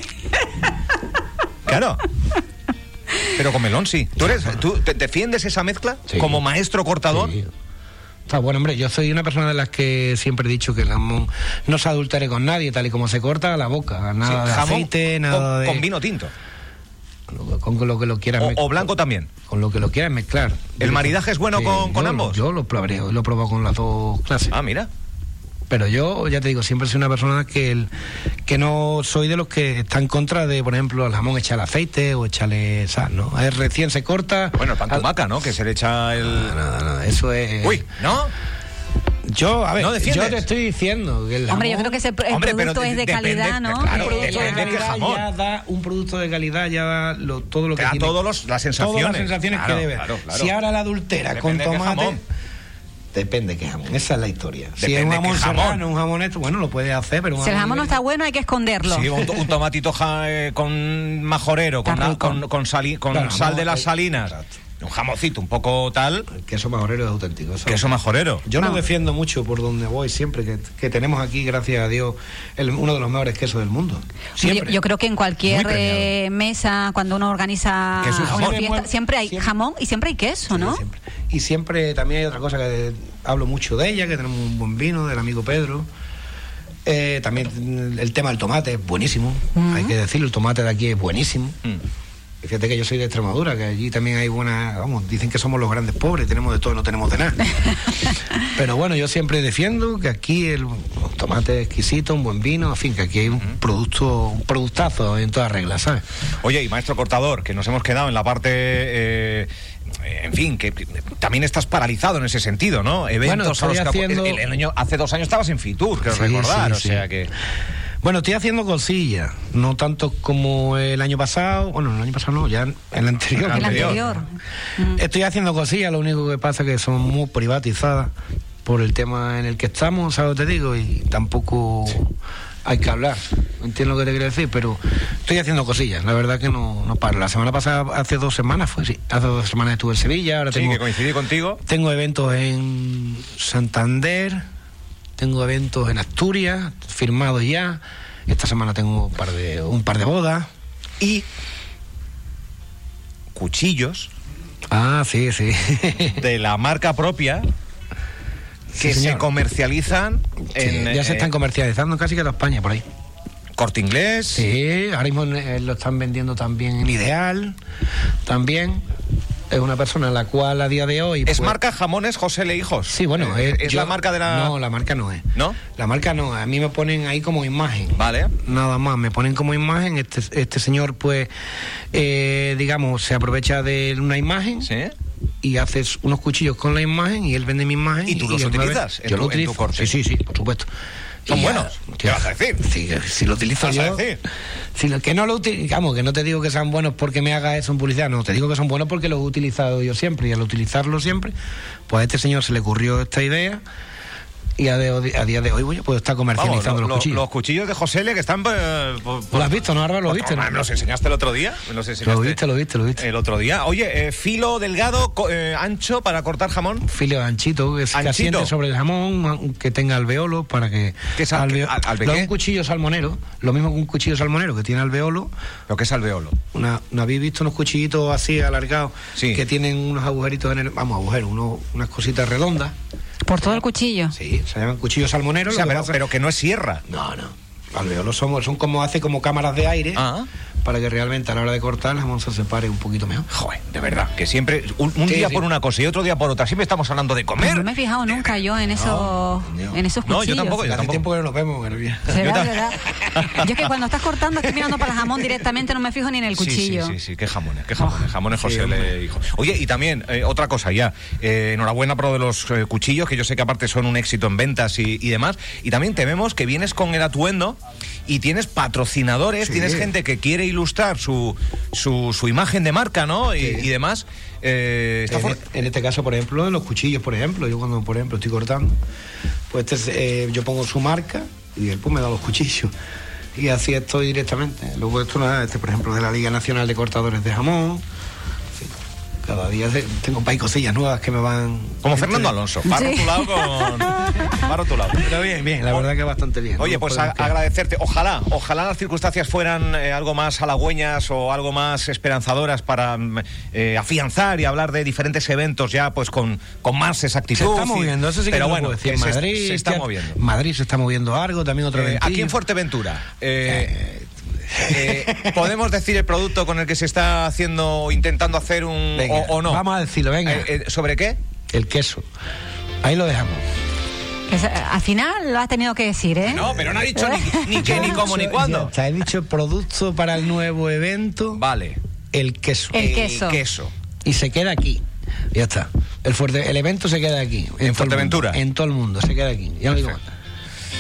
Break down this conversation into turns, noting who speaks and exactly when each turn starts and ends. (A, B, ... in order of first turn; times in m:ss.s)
0:01.7-0:02.0 A
0:03.3-0:07.4 A
0:06.1-0:06.4 B
0:07.1-0:07.5 B
0:08.3-0:15.8 B
0:14.2-0:16.3 A
0:17.3-0:18.9 B
0:18.4-0:19.3 A
0:19.5-0:24.5 B
0:20.8-0:22.4 A
0:24.5-0:24.9 A
0:25.7-0:27.9 B
0:28.5-0:35.1 B
0:34.5-0:36.6 A
0:36.2-0:37.9 B
0:37.6-0:38.3 A
0:39.3-0:42.0 B
0:39.8-0:40.5 A
0:41.5-0:44.9 C
0:42.3-0:45.3 A
0:43.9-0:48.2 B
0:47.8-0:50.5 A
0:48.8-0:52.2 B
0:51.3-0:52.2 A
0:53.1-0:58.0 B
0:54.8-0:55.8 A
0:57.4-0:59.3 C
0:58.8-1:06.3 A
1:01.8-1:02.4 C
1:03.1-1:04.5 B
1:06.3-1:14.8 B
1:07.6-1:08.4 A
1:08.6-1:08.8 C
1:14.4-1:20.8 C
1:15.5-1:16.1 A
1:18.0-1:18.6 A
1:18.1-1:19.5 B
1:20.5-1:25.9 B
1:26.8-1:31.6 B
1:29.6-1:29.9 C
1:32.4-1:37.5 B
1:38.4-1:46.0 B
1:46.4-1:49.5 A
1:50.0-1:57.3 A
1:53.2-1:54.4 B
1:56.1-1:57.1 B
1:58.0-2:04.2 B
2:03.4-2:04.0 A
2:03.5-2:05.0 C
2:04.9-2:08.1 B
2:08.6-2:12.1 B
2:12.6-2:20.8 B
2:20.5-2:21.6 A
2:21.7-2:24.4 B
2:25.2-2:30.5 B
2:31.0-2:31.3 A
2:33.3-2:34.1 A
2:34.7-2:36.2 B
2:36.1-2:37.5 A
2:38.7-2:39.3 B
2:38.8-2:41.3 A
2:40.6-2:42.8 B
2:43.6-2:44.5 A
2:44.4-2:47.6 B
2:48.3-2:48.8 B
2:49.5-2:51.6 B
2:51.3-2:54.6 A
2:52.9-3:01.3 B
2:58.0-2:58.3 A
3:01.9-3:04.7 B
3:04.6-3:04.9 A
3:05.4-3:10.7 B
3:08.1-3:10.0 A
3:11.3-3:14.0 B
3:11.3-3:12.6 A
3:13.6-3:14.2 A
3:14.8-3:21.3 B
3:21.9-3:23.6 B
3:24.6-3:27.2 B
3:26.4-3:32.4 A
3:29.3-3:30.6 B
3:32.0-3:33.0 B
3:33.0-3:36.9 A
3:36.9-3:45.3 B
3:37.9-3:38.5 A
3:41.2-3:42.3 A
3:45.7-3:46.4 A
3:46.5-3:52.8 B
3:49.2-3:49.4 A
3:53.3-3:54.1 C
3:54.1-3:56.0 B
3:55.5-3:56.8 A
3:56.9-4:00.1 B
4:00.0-4:00.3 A
4:00.6-4:03.3 B
4:03.3-4:08.5 A
4:05.1-4:05.4 B
4:07.4-4:10.6 C
4:08.7-4:09.8 B
4:10.0-4:11.0 A
4:10.6-4:12.3 B
4:12.1-4:17.0 C
4:12.1-4:13.7 A
4:16.4-4:35.4 A
4:18.4-4:18.9 B
4:29.4-4:29.9 B
4:33.4-4:33.7 B
4:35.1-4:38.7 B
4:39.5-4:42.7 B
4:43.4-4:47.8 B
4:49.2-4:52.4 B
4:51.8-4:55.1 A
4:52.6-4:54.4 C
4:55.0-4:57.4 B
4:56.6-5:10.2 A
5:07.4-5:12.4 B
5:11.7-5:13.9 A
5:13.4-5:14.0 B
5:14.6-5:15.4 B
5:14.7-5:19.6 A
5:19.0-5:20.5 B
5:20.2-5:21.2 A
5:21.5-5:22.0 B
5:22.8-5:23.4 B
5:24.3-5:28.0 C
5:26.2-5:28.7 A
5:26.4-5:26.8 B
5:27.6-5:31.4 B
5:31.3-5:31.8 A
5:32.1-5:32.8 B
5:32.7-5:33.4 C
5:32.8-5:33.7 A
5:34.0-5:40.0 B
5:37.6-5:38.4 A